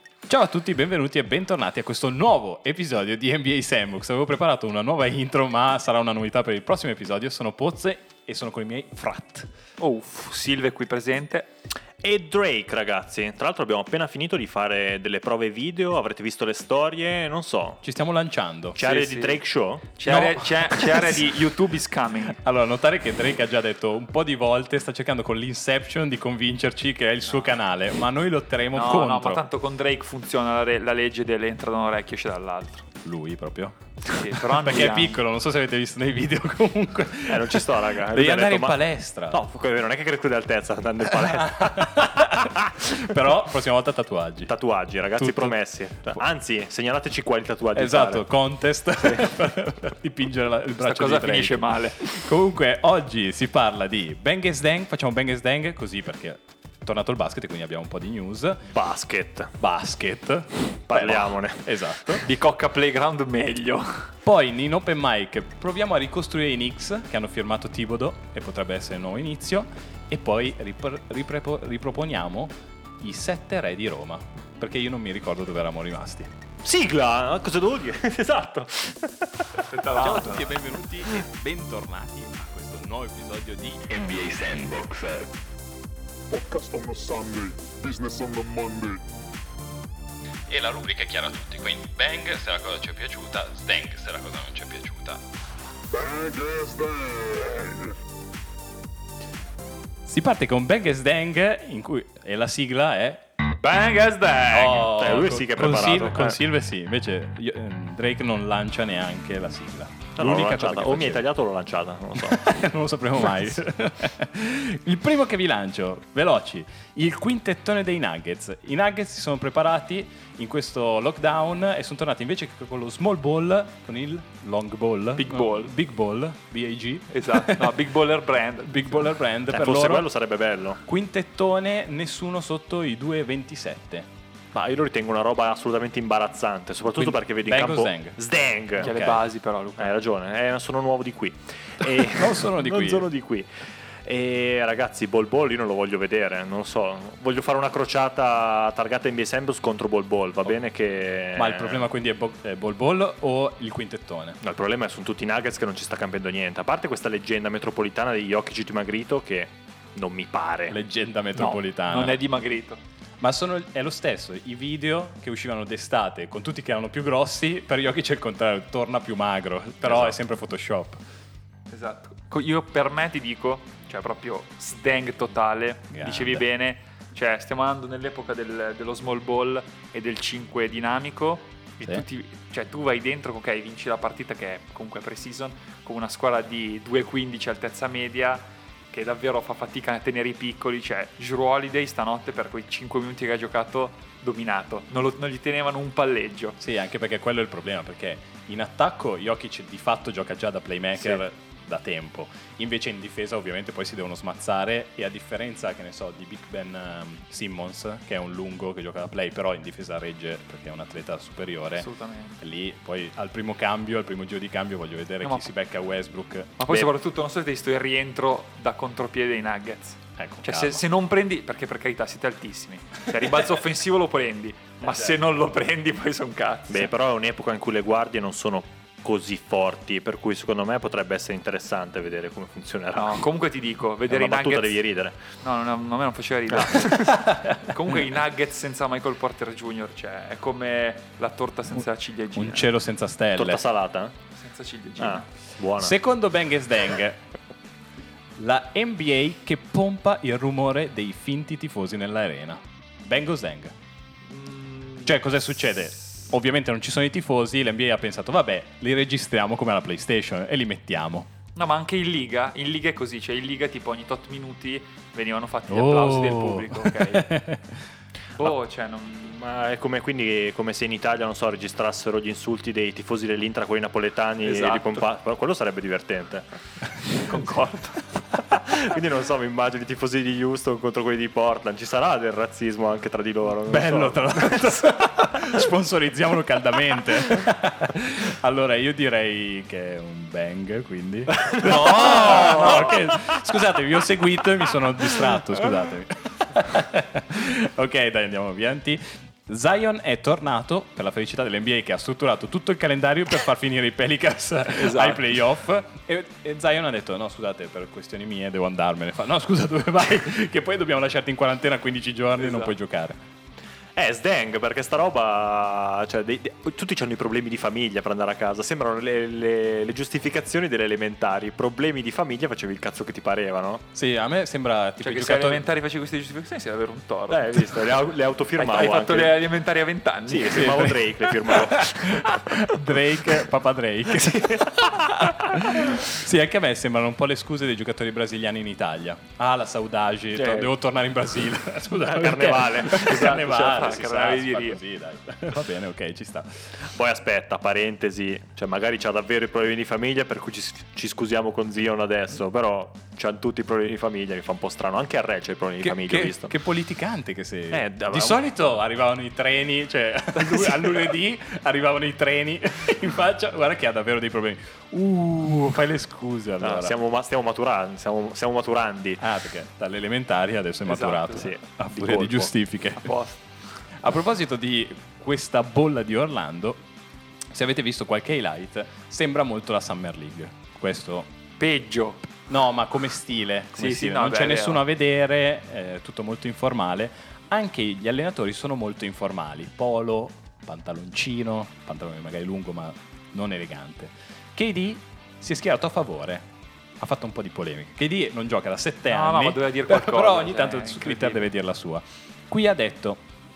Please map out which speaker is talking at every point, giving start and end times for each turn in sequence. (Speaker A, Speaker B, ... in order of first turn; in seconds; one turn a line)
Speaker A: 0.3-9.5
Speaker B: 9.8-11.5
Speaker C: 12.0-17.8
Speaker A: 17.8-18.8
Speaker C: 18.8-20.0
Speaker B: 18.8-22.4
Speaker A: 20.1-21.4
Speaker A: 22.3-29.4
Speaker B: 27.3-27.5
Speaker B: 28.7-32.9
Speaker A: 33.0-39.4
Speaker B: 34.1-35.2
Speaker C: 37.3-42.7
Speaker A: 41.3-44.5
Speaker C: 44.5-48.2
Speaker A: 45.2-46.2
Speaker A: 47.8-58.7
Speaker B: 50.8-52.0
Speaker C: 58.7-59.5
Speaker A: 59.6-62.2
Speaker C: 60.9-62.2
Speaker B: 62.2-64.1
Speaker A: 64.2-76.3
Speaker C: 76.6-79.7
Speaker B: 79.7-80.5
Speaker A: 80.0-85.2
Speaker D: 84.5-85.0
Speaker D: 86.3-89.0
Speaker A: 90.5-95.2
Speaker D: 95.9-98.0
Speaker A: 100.1-103.2
Speaker C: 103.6-106.4
Speaker A: 104.5-111.3
Speaker C: 110.2-112.5
Speaker A: 112.2-127.7
Speaker B: 125.2-125.7
Speaker B: 127.1-129.1
Speaker A: 128.7-130.1
Speaker C: 129.5-130.8
Speaker A: 130.8-134.1
Speaker C: 134.5-139.0
Speaker A: 137.0-138.2
Speaker B: 138.8-139.9
Speaker A: 138.8-139.2
Speaker C: 139.8-151.9
Speaker A: 141.8-143.1
Speaker A: 151.4-154.4
Speaker C: 154.4-160.8
Speaker A: 160.7-162.2
Speaker B: 161.4-162.8
Speaker A: 163.2-171.0
Speaker B: 171.7-196.6
Speaker A: 175.9-176.5
Speaker A: 196.6-211.9
Speaker B: 211.8-212.4
Speaker A: 212.4-216.9
Speaker B: 215.2-215.5
Speaker B: 216.6-226.9
Speaker A: 220.2-220.8
Speaker C: 226.7-233.3
Speaker B: 232.9-234.8
Speaker C: 234.1-235.2
Speaker B: 235.4-242.7
Speaker C: 236.5-237.0
Speaker A: 237.1-237.6
Speaker A: 242.4-243.6
Speaker C: 243.4-244.1
Speaker B: 244.4-245.3
Speaker C: 245.0-246.0
Speaker A: 245.8-247.2
Speaker A: 248.4-253.7
Speaker B: 254.3-255.2
Speaker A: 255.1-261.3
Speaker B: 261.6-267.2
Speaker A: 265.7-267.8
Speaker B: 268.4-269.4
Speaker C: 269.3-276.5
Speaker B: 274.4-275.1
Speaker B: 277.2-278.2
Speaker C: 278.5-285.3
Speaker A: 283.7-313.2
Speaker C: 291.4-293.4
Speaker B: 291.8-292.6
Speaker B: 304.7-305.5
Speaker B: 312.4-312.8
Speaker C: 313.9-323.8
Speaker A: 323.9-325.7
Speaker B: 325.0-327.9
Speaker C: 327.3-329.4
Speaker B: 328.6-331.0
Speaker C: 330.3-332.0
Speaker A: 330.4-346.8
Speaker C: 334.8-335.3
Speaker B: 340.4-340.7
Speaker C: 342.0-343.5
Speaker B: 342.9-344.8
Speaker C: 346.8-356.5
Speaker A: 355.8-367.0
Speaker C: 357.7-358.4
Speaker C: 360.5-360.9
Speaker C: 366.6-369.2
Speaker A: 369.2-373.1
Speaker B: 370.9-371.5
Speaker C: 371.4-372.5
Speaker B: 373.0-373.4
Speaker A: 374.0-376.8
Speaker A: 377.5-381.3
Speaker B: 381.6-382.3
Speaker A: 382.5-396.5
Speaker B: 383.8-384.8
Speaker A: 397.0-403.2
Speaker B: 399.1-401.5